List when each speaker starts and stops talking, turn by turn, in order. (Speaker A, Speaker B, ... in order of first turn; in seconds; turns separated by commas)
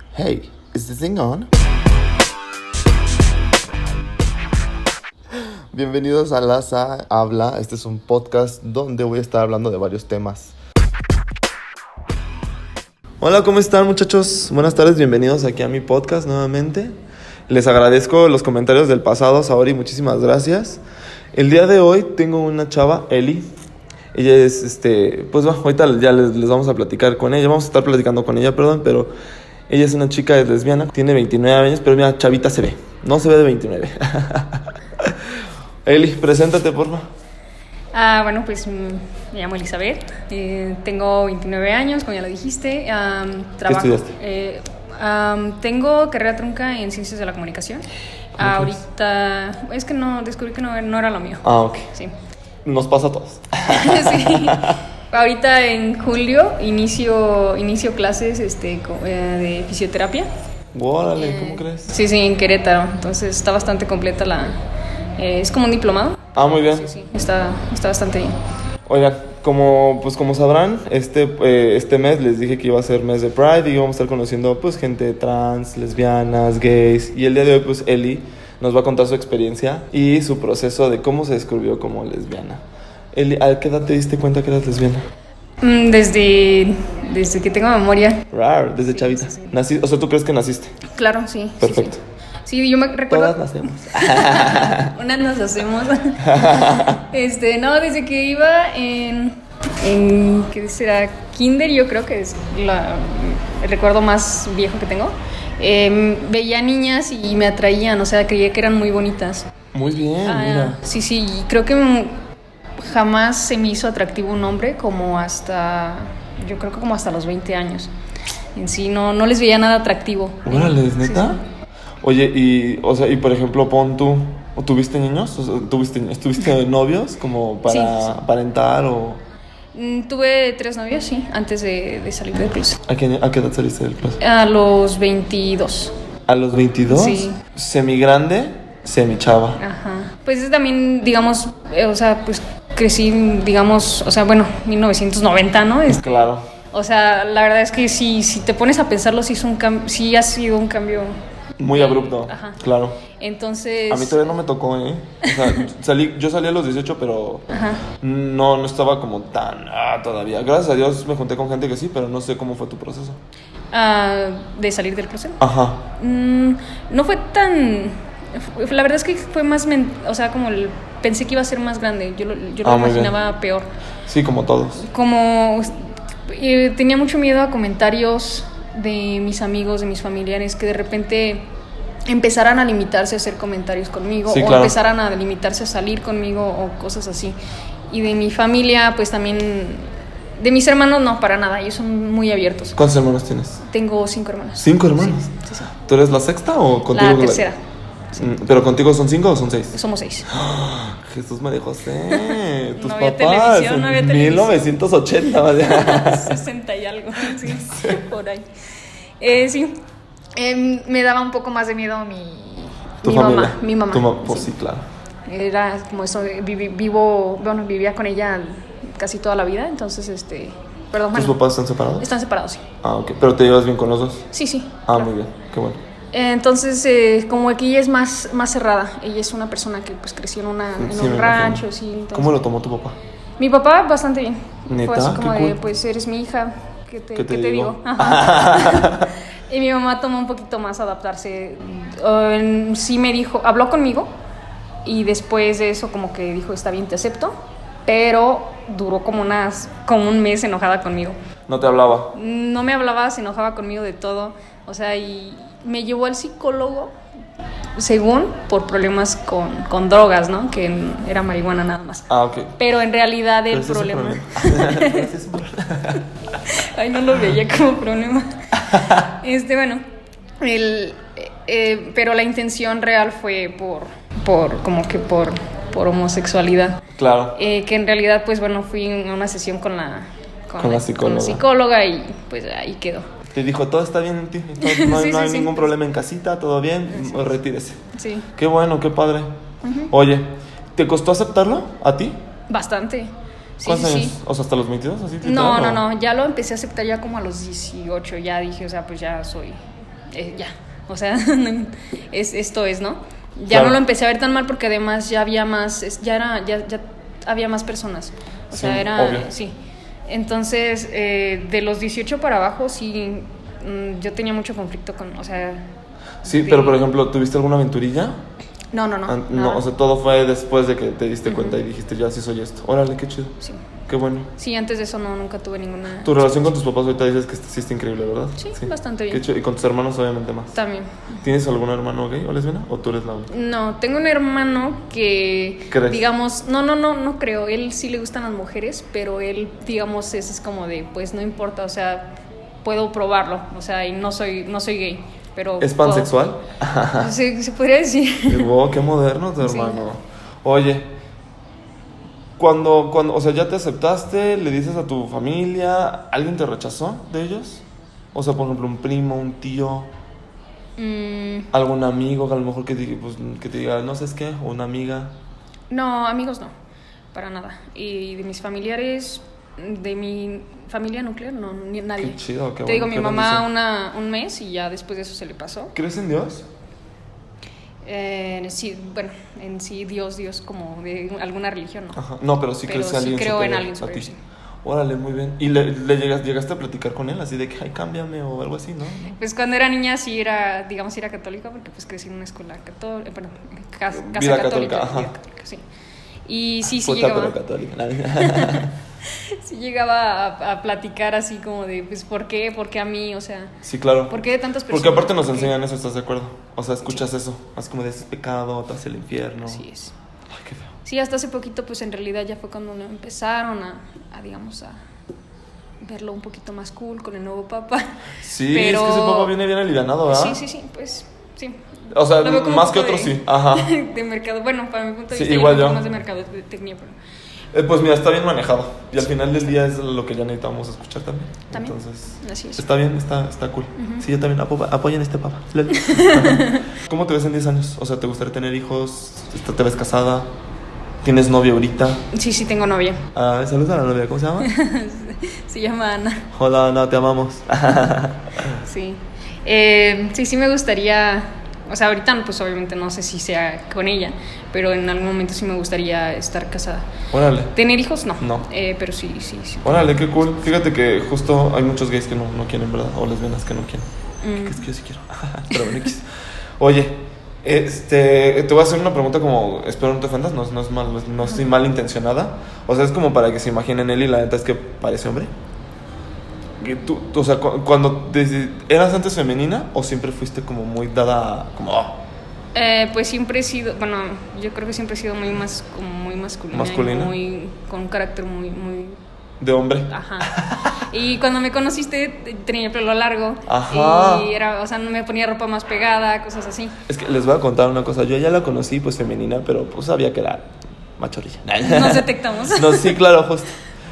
Speaker A: 0.1-1.5, Speaker A: 5.7-10.5, Speaker A: 13.2-16.9, Speaker A: 17.5-20.8, Speaker A: 21.3-23.5, Speaker A: 24.1-29.1, Speaker A: 29.7-35.3, Speaker A: 35.8-37.0, Speaker B: 37.9-47.9, Speaker A: 43.7-44.1, Speaker B: 48.4-52.1, Speaker A: 48.4-48.8, Speaker A: 51.4-51.9, Speaker A: 52.6-54.8, Speaker B: 53.7-60.3, Speaker A: 60.7-61.9, Speaker B: 61.1-64.6, Speaker B: 65.2-68.3, Speaker A: 66.3-66.9, Speaker A: 68.8-82.6, Speaker A: 83.1-85.1, Speaker B: 85.6-88.2, Speaker A: 88.3-90.7, Speaker B: 88.9-89.6, Speaker B: 90.9-109.5, Speaker A: 91.6-92.0, Speaker A: 93.1-94.9, Speaker A: 96.2-97.0, Speaker A: 109.7-110.8, Speaker B: 110.2-112.2, Speaker B: 112.8-117.9, Speaker B: 118.5-121.4, Speaker A: 120.5-121.4, Speaker A: 122.0-129.2, Speaker B: 127.7-128.2, Speaker B: 129.7-132.8, Speaker A: 132.9-134.2, Speaker B: 134.2-135.9, Speaker A: 136.3-139.6, Speaker B: 136.9-137.4, Speaker B: 139.6-152.6, Speaker A: 145.9-146.4, Speaker A: 151.6-153.0, Speaker B: 153.1-154.2, Speaker A: 153.9-163.2, Speaker B: 155.2-155.6, Speaker B: 157.5-157.8, Speaker B: 163.7-165.4, Speaker A: 165.4-165.9, Speaker B: 165.9-173.7, Speaker A: 172.6-173.1, Speaker A: 174.1-174.8, Speaker B: 174.8-181.5, Speaker B: 182.1-187.4, Speaker A: 184.3-184.7, Speaker B: 187.9-192.8, Speaker A: 192.8-193.6, Speaker B: 193.7-195.7, Speaker A: 194.6-197.4, Speaker B: 196.9-197.6, Speaker A: 198.2-199.8, Speaker B: 199.7-200.3, Speaker A: 200.3-206.4, Speaker B: 202.1-204.7, Speaker B: 205.4-208.5, Speaker A: 207.4-208.0, Speaker B: 209.2-209.8, Speaker B: 210.3-214.5, Speaker A: 213.0-214.9, Speaker B: 215.3-221.4, Speaker A: 221.1-222.1, Speaker B: 222.0-222.6, Speaker A: 222.8-224.3, Speaker B: 224.3-225.1, Speaker A: 224.8-225.8, Speaker B: 226.1-232.4, Speaker A: 230.8-233.0, Speaker B: 233.4-244.1, Speaker A: 234.7-235.6, Speaker A: 237.2-239.1, Speaker B: 244.8-251.2, Speaker A: 251.5-252.1, Speaker B: 252.1-256.9, Speaker B: 257.8-265.1, Speaker A: 262.1-262.6, Speaker A: 263.5-266.1, Speaker B: 266.4-269.8, Speaker A: 268.7-268.9, Speaker B: 270.4-276.8, Speaker A: 276.9-277.4, Speaker B: 277.3-283.1, Speaker A: 280.6-281.4, Speaker A: 283.2-287.8, Speaker B: 284.6-285.6, Speaker B: 286.9-287.4, Speaker B: 287.9-288.3, Speaker A: 288.3-289.3, Speaker B: 289.6-289.9, Speaker A: 289.9-292.1, Speaker B: 292.5-294.2, Speaker A: 293.6-295.8, Speaker B: 295.2-299.6, Speaker B: 300.1-309.5, Speaker A: 303.5-303.8, Speaker A: 308.5-309.3, Speaker B: 310.1-315.6, Speaker B: 316.2-316.8, Speaker A: 316.2-318.2, Speaker B: 318.7-319.6, Speaker A: 319.1-323.3, Speaker B: 321.2-321.6, Speaker A: 323.9-324.3, Speaker B: 324.4-326.5, Speaker A: 326.0-330.6, Speaker B: 328.4-329.2, Speaker B: 330.5-331.1, Speaker A: 331.2-333.3, Speaker B: 333.3-346.2, Speaker A: 335.7-336.0, Speaker A: 345.6-347.1, Speaker B: 346.9-348.5, Speaker A: 348.2-350.9, Speaker B: 349.4-349.8, Speaker A: 352.4-359.9, Speaker B: 360.8-361.5, Speaker A: 361.5-365.1, Speaker B: 365.7-366.5, Speaker B: 367.1-375.7, Speaker A: 372.0-373.5, Speaker A: 375.7-376.5, Speaker B: 377.8-382.0, Speaker A: 381.9-384.1, Speaker B: 382.6-384.2, Speaker A: 384.6-389.1, Speaker B: 389.1-395.6, Speaker A: 393.9-395.1, Speaker B: 396.3-397.4, Speaker A: 396.7-398.7, Speaker B: 398.1-403.6, Speaker A: 403.6-404.1, Speaker B: 404.1-405.6, Speaker A: 404.7-409.6, Speaker B: 409.4-409.9, Speaker A: 410.3-410.7, Speaker B: 410.8-414.8, Speaker B: 415.8-417.9, Speaker A: 418.2-420.4, Speaker B: 418.5-419.3, Speaker B: 420.1-426.9, Speaker A: 421.9-423.7, Speaker A: 425.1-425.8, Speaker A: 427.5-440.3, Speaker B: 431.5-432.6, Speaker B: 433.8-434.0, Speaker B: 435.8-436.6, Speaker A: 441.0-442.0, Speaker B: 442.1-443.0, Speaker A: 443.1-444.5, Speaker B: 444.4-446.3, Speaker A: 446.3-448.6, Speaker B: 448.6-456.9, Speaker A: 457.1-457.5, Speaker B: 457.5-460.4, Speaker A: 458.2-458.4, Speaker A: 459.6-463.9, Speaker B: 464.2-464.7, Speaker A: 464.4-466.1, Speaker A: 466.6-475.3, Speaker A: 476.6-482.0, Speaker B: 482.5-489.0, Speaker A: 486.5-487.1, Speaker A: 489.4-490.7, Speaker B: 489.9-496.8, Speaker A: 493.5-494.3, Speaker A: 496.9-503.5, Speaker B: 501.6-503.0